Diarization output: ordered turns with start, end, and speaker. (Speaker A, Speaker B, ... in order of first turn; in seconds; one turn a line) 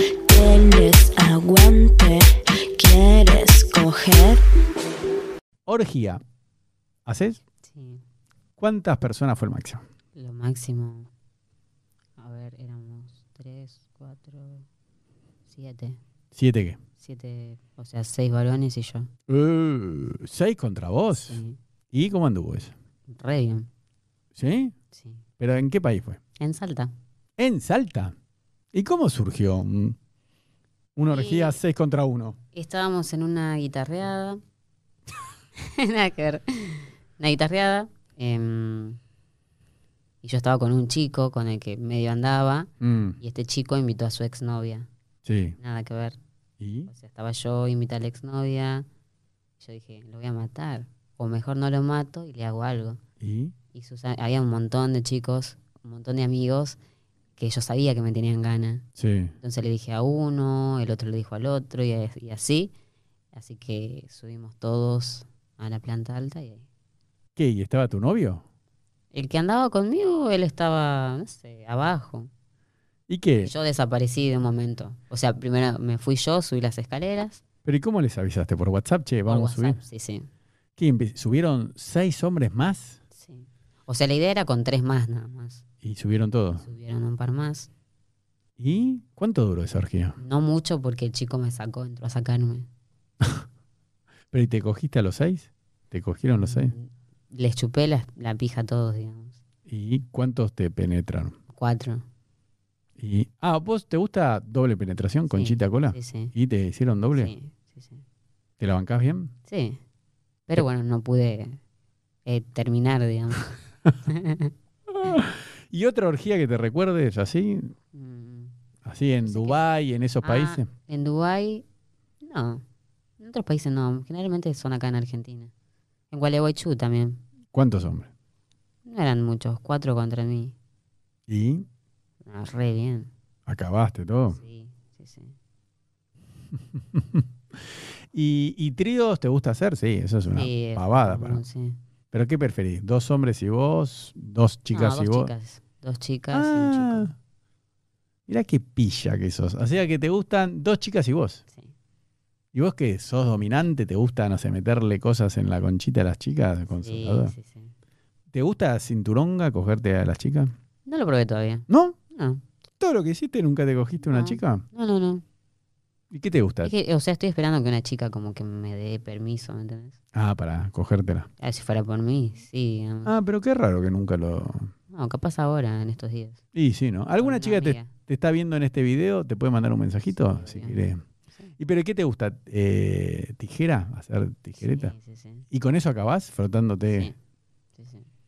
Speaker A: 0.3-2.2
Speaker A: 2.8-4.4
Speaker B: 5.7-6.2
Speaker B: 7.1-7.4
Speaker C: 7.7-8.0
Speaker B: 8.6-9.8
Speaker C: 10.1-11.1
Speaker C: 12.2-14.7
Speaker C: 15.5-16.0
Speaker B: 16.3-16.8
Speaker C: 17.0-19.1
Speaker B: 19.3-22.7
Speaker C: 21.2-21.6
Speaker C: 23.1-23.7
Speaker B: 24.4-24.7
Speaker C: 24.9-25.2
Speaker B: 25.4-26.2
Speaker C: 26.4-26.9
Speaker B: 27.4-28.1
Speaker B: 28.7-30.0
Speaker B: 31.0-32.4
Speaker C: 31.1-31.6
Speaker C: 32.5-34.4
Speaker C: 35.6-39.0
Speaker C: 40.2-44.9
Speaker B: 42.8-43.2
Speaker B: 45.2-45.6
Speaker C: 45.6-46.2
Speaker B: 46.6-46.9
Speaker C: 46.9-48.9
Speaker C: 49.6-53.0
Speaker B: 53.2-53.5
Speaker C: 53.7-56.8
Speaker C: 57.4-58.9
Speaker B: 59.0-59.3
Speaker C: 59.4-62.7
Speaker C: 63.3-66.7
Speaker B: 67.4-68.4
Speaker C: 69.1-72.3
Speaker B: 73.1-73.5
Speaker C: 73.4-77.4
Speaker B: 77.7-79.8
Speaker C: 79.3-80.3
Speaker B: 80.8-83.0
Speaker C: 83.1-85.6
Speaker B: 85.8-86.7
Speaker C: 86.6-87.7
Speaker B: 88.6-90.2
Speaker C: 90.2-92.7
Speaker B: 94.3-96.8
Speaker C: 96.3-99.4
Speaker B: 99.7-101.3
Speaker C: 101.5-102.0
Speaker B: 103.0-107.3
Speaker C: 105.3-106.3
Speaker C: 107.1-108.0
Speaker B: 108.6-109.3
Speaker C: 109.5-109.8
Speaker C: 110.5-111.6
Speaker C: 112.2-114.5
Speaker B: 114.9-117.7
Speaker C: 117.9-118.5
Speaker B: 118.8-120.7
Speaker C: 119.2-119.6
Speaker C: 120.2-121.7
Speaker C: 122.2-122.6
Speaker C: 123.2-125.5
Speaker C: 126.1-127.2
Speaker B: 127.5-128.1
Speaker C: 128.8-130.6
Speaker B: 131.3-131.7
Speaker C: 132.2-133.1
Speaker B: 133.5-134.4
Speaker C: 134.3-135.3
Speaker B: 136.8-137.2
Speaker B: 138.1-141.4
Speaker C: 140.3-141.8
Speaker B: 142.1-145.3
Speaker C: 144.7-147.1
Speaker B: 146.3-147.1
Speaker B: 148.3-151.4
Speaker B: 152.5-157.3
Speaker C: 156.7-157.7
Speaker B: 158.3-160.5
Speaker C: 160.9-162.4
Speaker B: 161.7-162.0
Speaker B: 162.8-164.6
Speaker C: 164.0-165.2
Speaker B: 166.1-166.7
Speaker C: 166.6-170.0
Speaker B: 170.1-171.3
Speaker C: 171.4-173.1
Speaker B: 173.1-174.7
Speaker C: 174.9-176.4
Speaker B: 176.5-181.0
Speaker C: 177.2-177.9
Speaker C: 180.1-181.6
Speaker B: 181.6-184.9
Speaker C: 184.6-185.5
Speaker B: 185.5-187.1
Speaker C: 186.9-187.2
Speaker C: 187.8-188.1